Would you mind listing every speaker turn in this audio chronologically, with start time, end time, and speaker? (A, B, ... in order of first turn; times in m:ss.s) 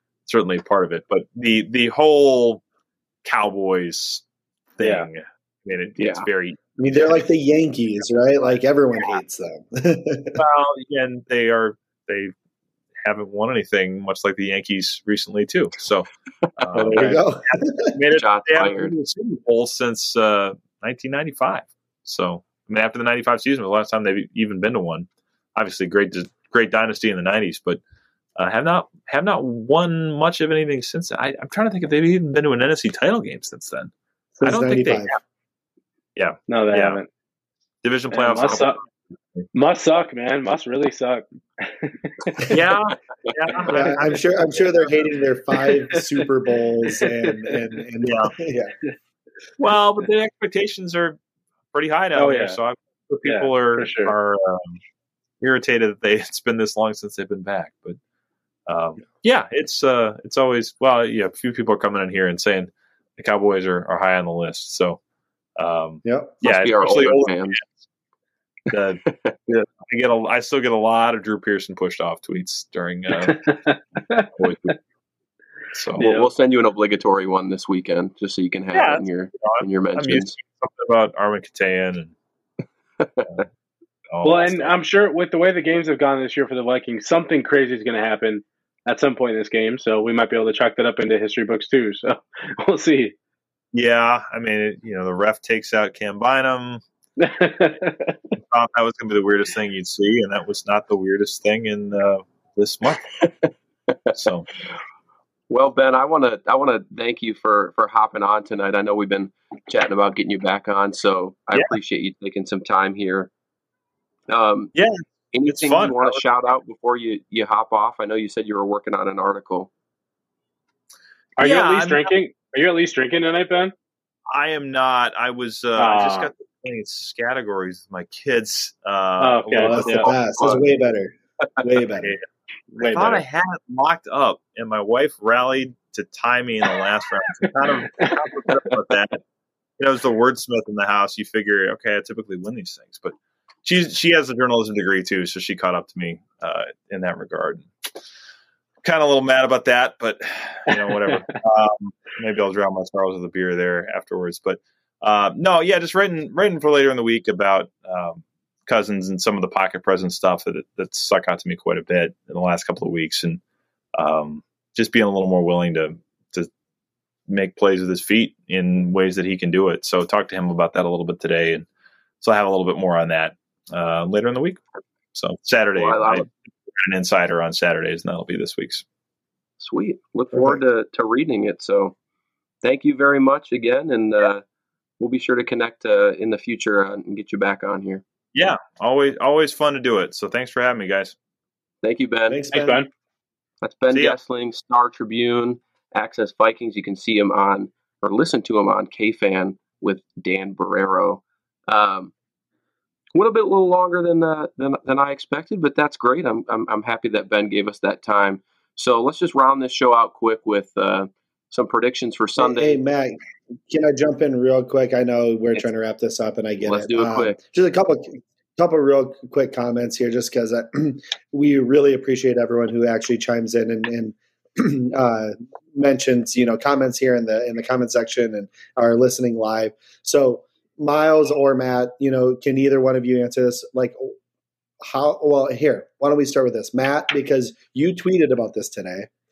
0:00.3-0:02.6 A
0:03.2-0:04.2 A
0:04.8-0:06.6 A
0:04.8-0:05.1 B
0:06.0-0:06.3 C
0:06.8-0:10.4 D
0:10.4-0:12.3 A
0:13.0-0:16.1 A
0:16.6-0:17.3 A
0:16.8-0:17.9 D
0:17.9-0:27.8 A
0:18.1-0:19.0 C
0:28.4-0:35.2 A
0:34.4-0:35.1 D
0:36.2-0:37.0 A
0:36.5-0:37.1 B
0:37.8-0:39.5 A
0:38.1-0:38.8 B
0:39.5-0:42.5 B
0:42.5-0:44.1 A
0:43.7-0:48.7 D
0:45.6-0:46.2 B
0:46.9-0:47.6 B
0:48.0-0:48.3 A
0:49.6-0:51.2 A
0:51.7-0:54.8 A
0:52.1-0:52.6 B
0:53.2-0:54.1 B
0:55.4-0:58.0 A
0:58.7-1:05.0 A
1:05.6-1:07.8 A
1:06.0-1:06.4 D
1:06.4-1:07.6 C
1:08.7-1:13.5 A
1:09.1-1:09.3 C
1:13.2-1:14.3 B
1:14.4-1:14.8 A
1:15.7-1:16.1 A
1:16.0-1:16.3 B
1:16.0-1:20.4 C
1:18.7-1:22.1 A
1:23.0-1:23.3 C
1:24.1-1:24.8 A
1:24.2-1:33.2 B
1:33.7-1:36.8 A
1:37.2-1:38.2 B
1:38.4-1:43.2 A
1:44.1-1:44.5 A
1:45.5-1:53.3 C
1:54.3-1:54.7 C
1:54.7-1:56.2 A
1:55.3-1:59.7 C
2:01.4-2:03.7 B
2:01.4-2:02.1 A
2:04.3-2:10.2 A
2:05.8-2:06.3 B
2:09.2-2:10.1 B
2:09.6-2:12.2 D
2:11.9-2:12.2 A
2:12.8-2:13.2 B
2:12.8-2:19.2 A
2:19.8-2:27.7 A
2:28.8-2:43.4 A
2:30.7-2:31.2 B
2:44.0-2:46.5 A
2:47.3-2:51.7 A
2:52.2-2:58.8 A
2:55.8-2:56.3 C
2:59.6-3:02.0 C
3:02.6-3:04.4 C
3:05.0-3:08.0 C
3:08.3-3:11.2 A
3:11.8-3:12.4 C
3:12.3-3:12.8 D
3:12.5-3:12.9 B
3:13.6-3:22.1 C
3:13.9-3:14.2 A
3:23.1-3:32.8 C
3:32.4-3:54.2 D
3:36.6-3:37.4 C
3:54.8-3:59.1 D